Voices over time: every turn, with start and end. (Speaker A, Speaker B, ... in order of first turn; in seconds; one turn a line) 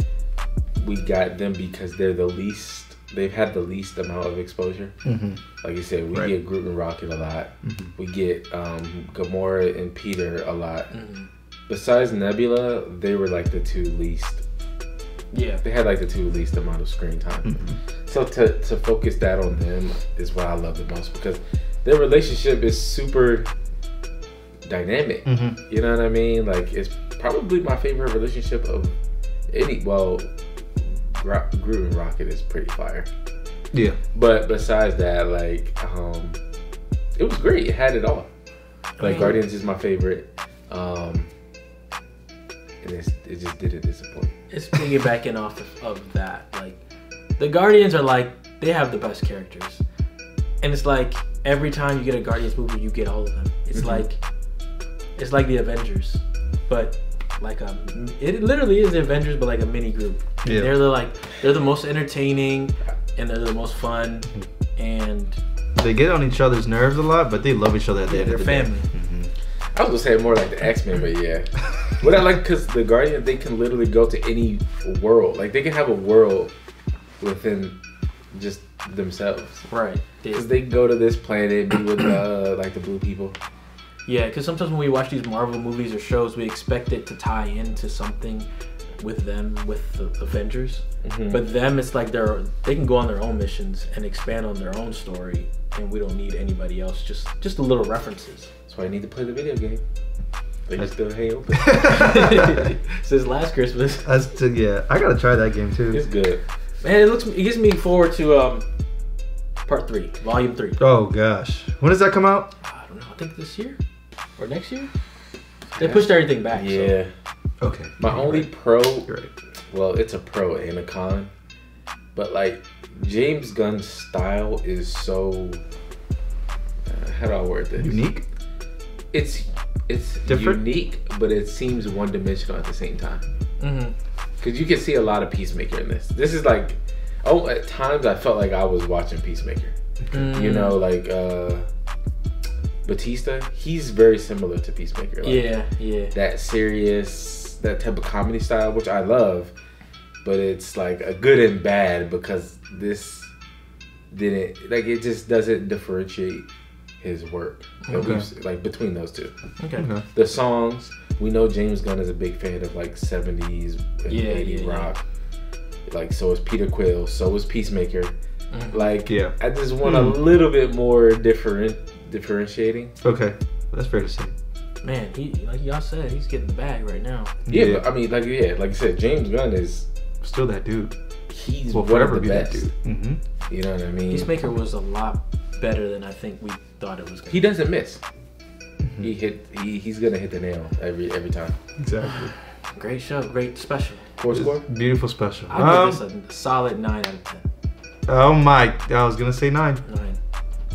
Speaker A: 0.8-5.0
Speaker B: 5.0-5.4
Speaker A: 5.6-10.9
Speaker B: 7.6-7.9
Speaker C: 10.9-11.3
Speaker A: 11.7-14.4
Speaker C: 15.3-15.6
Speaker A: 15.6-23.5
Speaker B: 17.4-17.8
Speaker A: 24.6-28.9
Speaker B: 25.2-25.6
Speaker A: 29.5-33.1
Speaker B: 33.7-34.0
Speaker A: 34.1-36.4
Speaker A: 37.1-38.3
Speaker C: 39.0-39.4
Speaker B: 39.0-39.4
Speaker A: 39.0-41.3
Speaker A: 42.8-44.4
Speaker C: 44.5-46.8
Speaker C: 47.4-49.8
Speaker C: 50.6-54.2
Speaker C: 55.1-65.4
Speaker B: 60.4-60.8
Speaker B: 65.8-69.3
Speaker C: 68.1-68.9
Speaker A: 69.7-76.5
Speaker A: 77.2-77.8
Speaker A: 78.3-79.7
Speaker C: 79.7-80.5
Speaker A: 80.3-83.4
Speaker C: 84.0-88.5
Speaker C: 89.0-98.5
Speaker A: 91.0-91.4
Speaker A: 98.7-99.8
Speaker A: 100.7-101.9
Speaker B: 101.5-102.3
Speaker C: 101.9-104.1
Speaker B: 104.0-106.0
Speaker A: 105.9-106.4
Speaker C: 106.8-108.7
Speaker C: 109.7-110.8
Speaker B: 110.8-112.5
Speaker C: 112.6-113.8
Speaker C: 114.4-114.9
Speaker C: 115.8-117.0
Speaker A: 116.5-117.1
Speaker B: 117.6-119.3
Speaker A: 118.0-119.1
Speaker A: 119.7-121.3
Speaker A: 122.1-125.6
Speaker A: 126.9-128.1
Speaker B: 127.8-128.2
Speaker A: 129.1-133.2
Speaker B: 130.2-130.6
Speaker C: 133.6-133.9
Speaker A: 134.4-141.7
Speaker C: 140.1-140.8
Speaker A: 142.8-145.6
Speaker C: 145.2-146.1
Speaker A: 146.1-149.5
Speaker A: 150.2-153.3
Speaker A: 154.1-156.5
Speaker A: 157.0-159.3
Speaker B: 157.9-158.2
Speaker C: 159.6-159.9
Speaker B: 159.8-160.1
Speaker A: 160.1-165.0
Speaker C: 164.1-164.9
Speaker A: 165.9-168.1
Speaker C: 168.5-168.9
Speaker A: 168.7-172.9
Speaker B: 169.1-170.2
Speaker B: 173.0-174.3
Speaker C: 174.8-177.3
Speaker B: 177.5-177.9
Speaker A: 177.5-179.9
Speaker B: 180.2-180.9
Speaker A: 181.3-182.7
Speaker B: 181.7-183.2
Speaker A: 183.5-184.3
Speaker C: 184.1-187.4
Speaker A: 187.3-188.0
Speaker B: 188.8-189.1
Speaker A: 189.0-191.6
Speaker B: 191.8-192.3
Speaker C: 192.7-194.1
Speaker A: 194.2-194.7
Speaker B: 194.3-196.0
Speaker C: 195.5-197.4
Speaker B: 198.1-199.8
Speaker C: 199.9-200.2